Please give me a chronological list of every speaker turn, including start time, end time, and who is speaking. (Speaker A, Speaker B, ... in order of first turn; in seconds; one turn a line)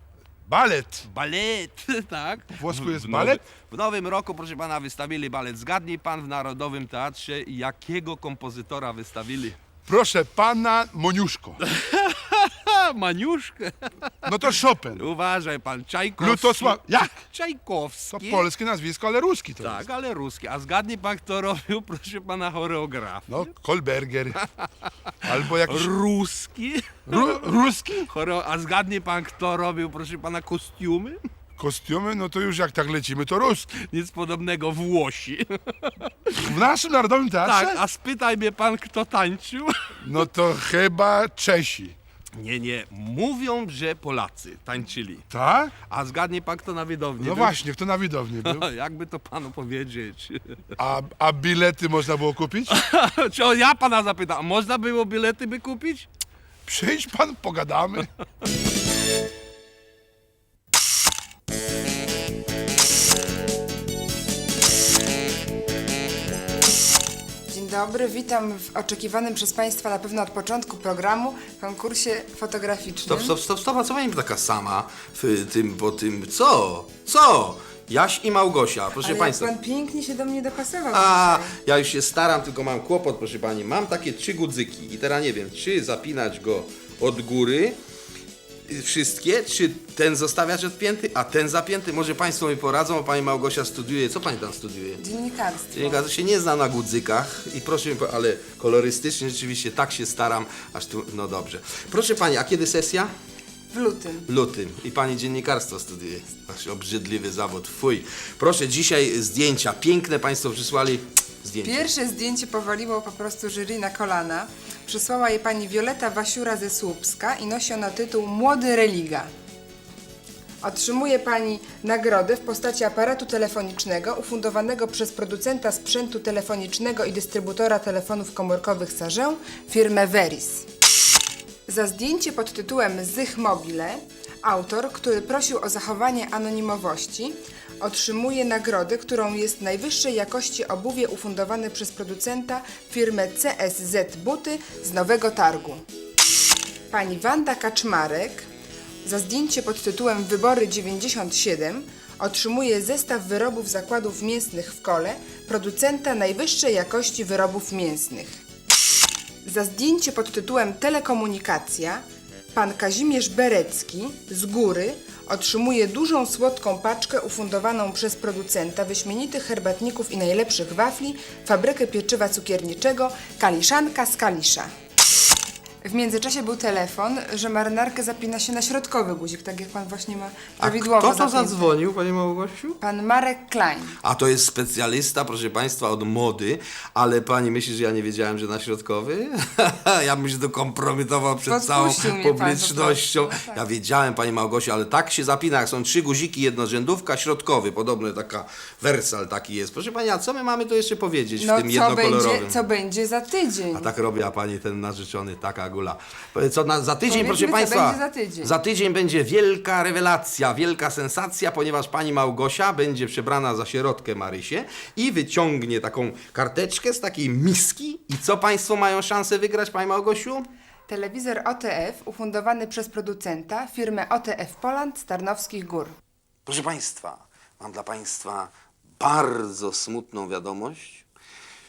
Speaker A: 0.5-1.1
Speaker B: 1.1-9.6
Speaker A: 2.5-3.4
Speaker A: 9.9-11.6
Speaker B: 11.6-18.5
Speaker A: 14.2-15.1
Speaker A: 16.2-17.2
Speaker A: 18.1-19.9
Speaker B: 19.6-23.5
Speaker A: 23.3-24.4
Speaker B: 24.4-27.4
Speaker A: 25.2-25.9
Speaker A: 27.1-28.1
Speaker B: 28.1-31.2
Speaker A: 31.6-33.8
Speaker B: 33.7-36.6
Speaker A: 36.4-37.8
Speaker B: 37.4-40.2
Speaker A: 40.0-42.0
Speaker B: 42.4-45.3
Speaker A: 45.3-45.7
Speaker B: 45.9-47.6
Speaker A: 47.2-48.6
Speaker B: 48.4-50.6
Speaker A: 50.8-52.8
Speaker B: 52.7-56.1
Speaker A: 56.7-58.1
Speaker C: 67.5-73.4
Speaker B: 73.1-79.5
Speaker C: 79.0-81.6
Speaker B: 80.9-87.8
Speaker B: 88.7-95.0
Speaker C: 95.0-96.0
Speaker B: 95.7-103.1
Speaker C: 103.7-104.3
Speaker B: 104.3-111.9
Speaker C: 111.6-119.3
Speaker C: 120.6-130.7
Speaker C: 131.7-145.8
Speaker C: 146.9-148.5
Speaker C: 149.0-158.4
Speaker C: 159.4-174.7
Speaker C: 175.8-181.8
Speaker B: 180.6-182.8
Speaker C: 182.8-184.0
Speaker B: 184.0-202.6
Speaker C: 191.5-193.6
Speaker C: 201.4-203.9
Speaker B: 203.7-220.5
Speaker C: 207.1-208.6
Speaker C: 220.9-225.9
Speaker B: 226.5-231.0